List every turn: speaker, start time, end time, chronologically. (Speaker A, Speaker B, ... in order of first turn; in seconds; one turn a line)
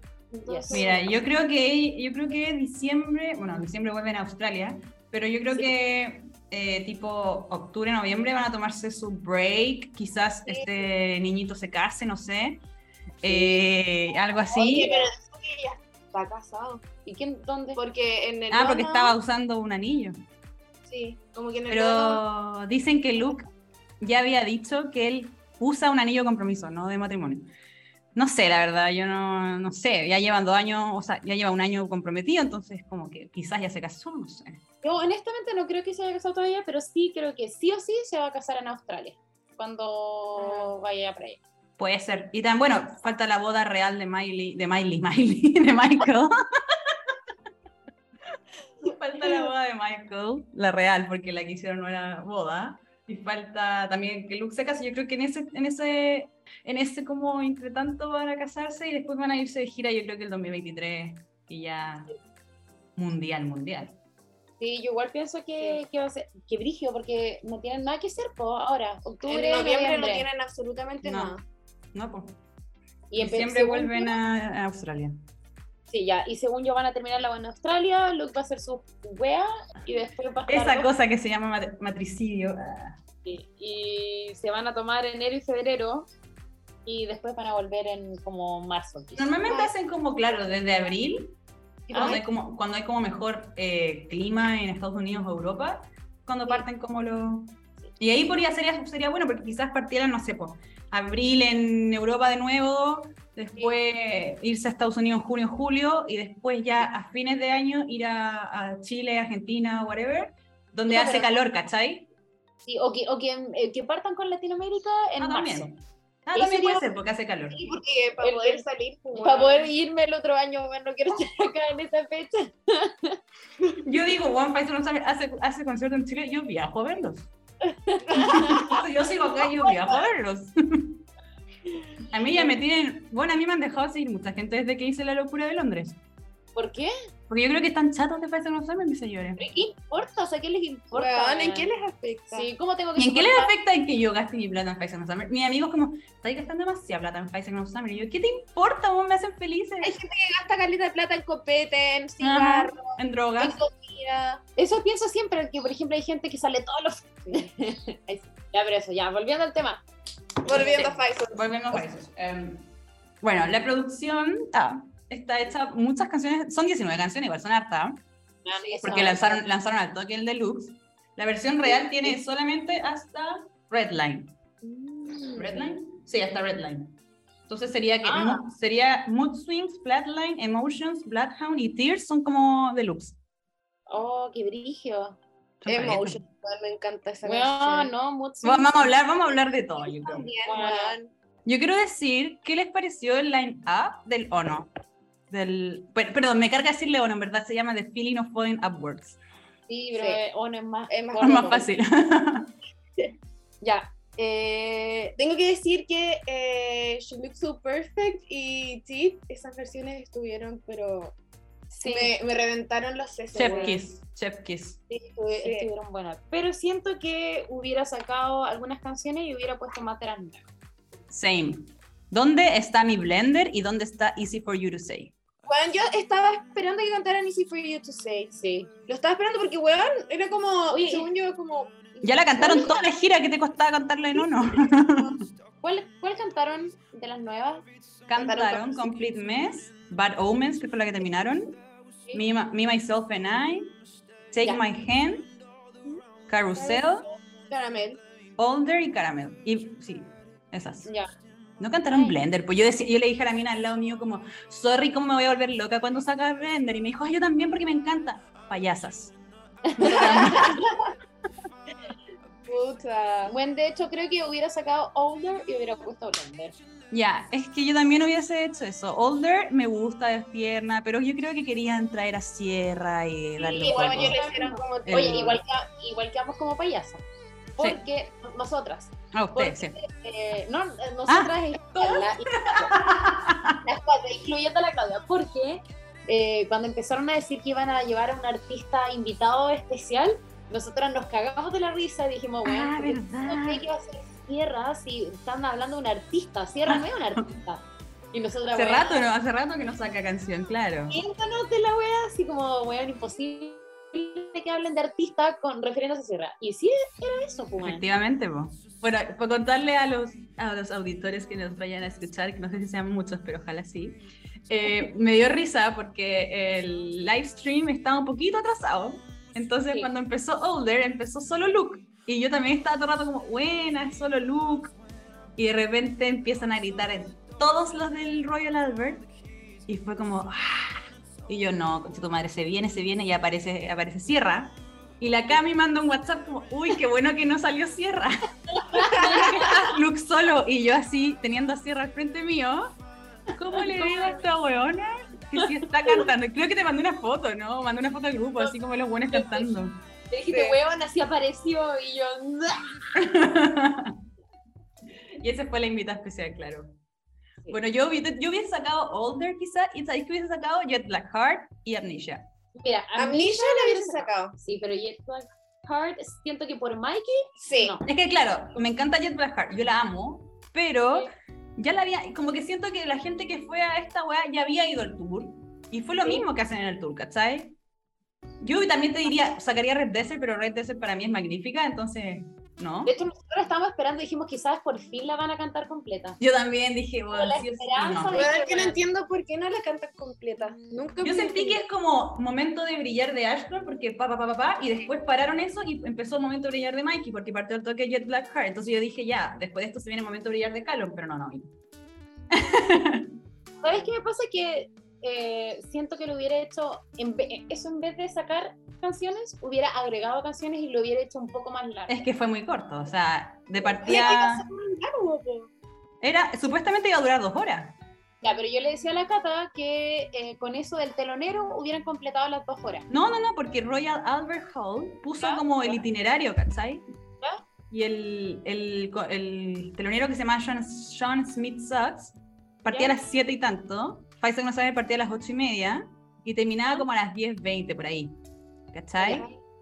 Speaker A: 0.4-1.1
Speaker B: 0.5-0.9
Speaker C: 0.7-12.6
Speaker C: 13.2-14.9
Speaker A: 13.3-13.6
Speaker A: 14.5-16.8
Speaker B: 17.1-17.8
Speaker A: 17.8-19.1
Speaker C: 18.5-20.2
Speaker A: 20.9-22.2
Speaker C: 21.7-23.5
Speaker C: 24.0-27.5
Speaker C: 28.1-34.6
Speaker B: 34.8-41.4
Speaker A: 40.4-40.7
Speaker C: 41.8-47.2
Speaker C: 48.8-62.1
Speaker C: 63.0-64.0
Speaker B: 64.6-70.3
Speaker A: 69.3-71.4
Speaker C: 71.0-71.3
Speaker C: 71.9-72.4
Speaker B: 73.1-74.2
Speaker C: 73.2-75.2
Speaker B: 75.9-80.9
Speaker C: 80.5-83.0
Speaker B: 83.2-86.1
Speaker B: 86.9-89.3
Speaker C: 89.2-91.3
Speaker A: 89.5-89.7
Speaker B: 91.9-92.2
Speaker A: 91.9-92.2
Speaker C: 91.9-112.1
Speaker B: 110.9-111.4
Speaker B: 112.7-115.7
Speaker C: 115.2-117.7
Speaker B: 116.3-116.9
Speaker B: 117.5-118.6
Speaker A: 117.7-119.7
Speaker B: 119.2-123.2
Speaker C: 123.8-127.3
Speaker B: 127.6-128.8
Speaker A: 128.2-128.7
Speaker C: 128.2-131.0
Speaker C: 132.1-136.0
Speaker B: 132.1-132.5
Speaker B: 136.6-136.9
Speaker C: 137.3-139.4
Speaker B: 139.4-141.7
Speaker A: 140.9-142.5
Speaker B: 142.3-143.5
Speaker C: 143.0-149.9
Speaker A: 149.8-154.4
Speaker C: 152.2-153.6
Speaker B: 154.6-159.8
Speaker B: 160.4-161.0
Speaker A: 160.4-161.5
Speaker C: 160.6-162.7
Speaker C: 163.2-168.0
Speaker B: 168.4-169.4
Speaker A: 168.6-169.1
Speaker C: 168.8-174.3
Speaker B: 174.6-175.7
Speaker C: 175.4-177.0
Speaker C: 177.5-183.2
Speaker B: 178.0-178.4
Speaker B: 183.9-185.2
Speaker C: 185.6-186.2
Speaker A: 185.7-187.9
Speaker B: 187.2-189.0
Speaker C: 188.4-190.3
Speaker A: 189.8-191.1
Speaker B: 190.4-191.0
Speaker C: 191.4-194.7
Speaker C: 195.3-199.2
Speaker B: 199.7-201.7
Speaker A: 200.9-201.6
Speaker C: 201.2-202.5
Speaker B: 203.6-205.1
Speaker A: 205.2-211.2
Speaker B: 211.8-212.1
Speaker A: 211.8-213.8
Speaker C: 213.3-214.8
Speaker B: 213.4-213.8
Speaker B: 214.9-220.5
Speaker A: 215.2-215.7
Speaker C: 221.1-225.2
Speaker A: 225.4-232.9
Speaker B: 228.3-228.7
Speaker B: 230.7-231.1
Speaker C: 232.0-235.2
Speaker B: 232.4-232.7
Speaker B: 235.6-237.7
Speaker C: 238.1-241.6
Speaker A: 238.2-239.0
Speaker C: 242.1-243.8
Speaker C: 244.3-245.3
Speaker C: 246.3-247.1
Speaker B: 246.6-247.1
Speaker A: 247.5-248.0
Speaker C: 248.4-250.9
Speaker C: 251.6-259.1
Speaker B: 251.9-252.2
Speaker B: 259.7-260.9
Speaker C: 259.8-260.6
Speaker A: 260.1-260.3
Speaker A: 262.5-263.3
Speaker B: 263.3-266.6
Speaker C: 266.9-274.2
Speaker A: 273.4-275.4
Speaker B: 273.5-277.0
Speaker C: 274.9-275.4
Speaker B: 277.6-282.8
Speaker C: 279.1-279.8
Speaker C: 281.1-283.6
Speaker B: 283.6-299.1
Speaker C: 292.4-293.6
Speaker C: 296.7-297.3
Speaker C: 298.5-301.0
Speaker B: 300.9-307.9
Speaker C: 307.6-324.8
Speaker C: 325.4-329.1
Speaker C: 329.7-338.2
Speaker B: 338.7-339.5
Speaker C: 338.7-342.8
Speaker C: 343.3-349.8
Speaker B: 343.6-344.1
Speaker B: 349.1-349.5
Speaker B: 350.1-352.9
Speaker A: 350.3-350.6
Speaker C: 353.0-354.0
Speaker C: 355.2-356.8
Speaker C: 357.5-362.3
Speaker B: 362.6-367.9
Speaker A: 363.0-364.4
Speaker A: 367.4-367.8
Speaker C: 367.9-377.6
Speaker C: 378.4-382.9
Speaker B: 382.8-386.2
Speaker C: 386.2-388.2
Speaker B: 387.1-388.8
Speaker A: 388.1-391.6
Speaker C: 391.0-401.5
Speaker C: 402.3-403.1
Speaker B: 403.6-412.1
Speaker C: 411.9-414.4
Speaker A: 413.8-415.5
Speaker B: 413.8-414.1
Speaker C: 416.0-417.8
Speaker B: 418.2-422.9
Speaker C: 422.9-426.8
Speaker B: 425.2-425.8
Speaker C: 427.7-438.2
Speaker B: 432.7-432.9
Speaker C: 438.7-439.2
Speaker B: 439.0-439.3
Speaker A: 439.1-439.3